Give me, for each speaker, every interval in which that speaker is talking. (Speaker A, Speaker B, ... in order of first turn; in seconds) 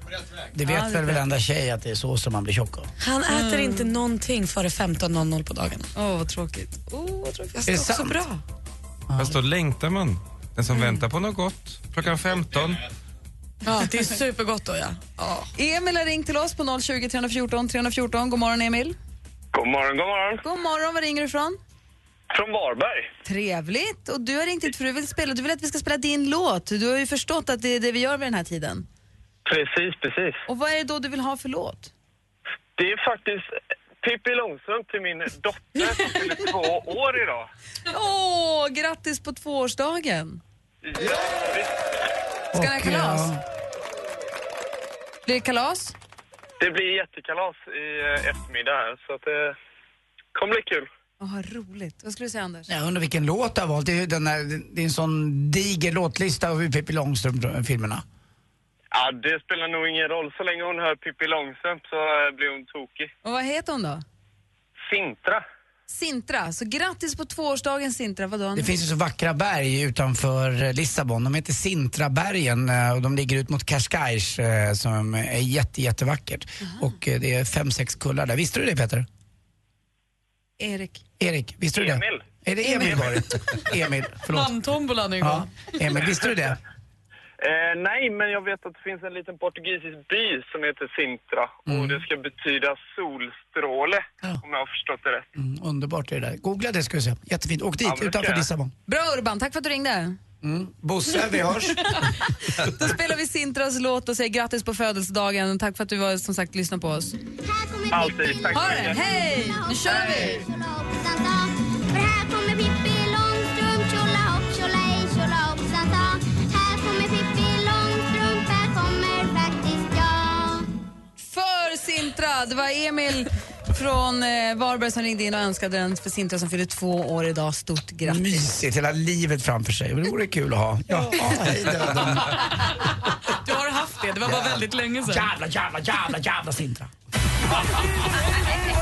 Speaker A: 0.5-2.9, 7.7-8.2, 9.1-9.4, 42.5-43.4, 52.7-58.0, 68.5-79.0, 81.2-84.5, 85.2-86.6, 91.7-92.0, 95.3-98.7, 100.4-102.1, 128.0-132.5, 134.2-136.9
Speaker B: 0.6-1.2, 3.3-3.9, 6.0-7.7, 15.5-18.9, 20.4-21.6, 23.2-28.9, 30.5-31.9, 37.9-40.4, 42.5-43.3, 45.2-45.9, 51.2-52.7, 63.2-64.0, 65.9-68.7, 80.6-81.0, 98.9-100.2, 101.9-107.2, 108.5-110.4, 121.2-128.4
Speaker C: 3.0-5.9, 7.6-8.4, 13.6-15.5, 84.3-85.5, 133.3-135.3
Speaker D: 9.2-12.9
Speaker E: 19.5-20.4, 22.3-23.1, 29.4-30.4, 32.8-33.5, 34.0-37.5, 40.8-41.7, 46.6-49.5, 50.3-50.9, 58.9-63.1, 64.8-65.4, 81.8-82.2, 87.4-95.3, 97.8-98.5, 107.9-109.0
Speaker F: 107.4-120.7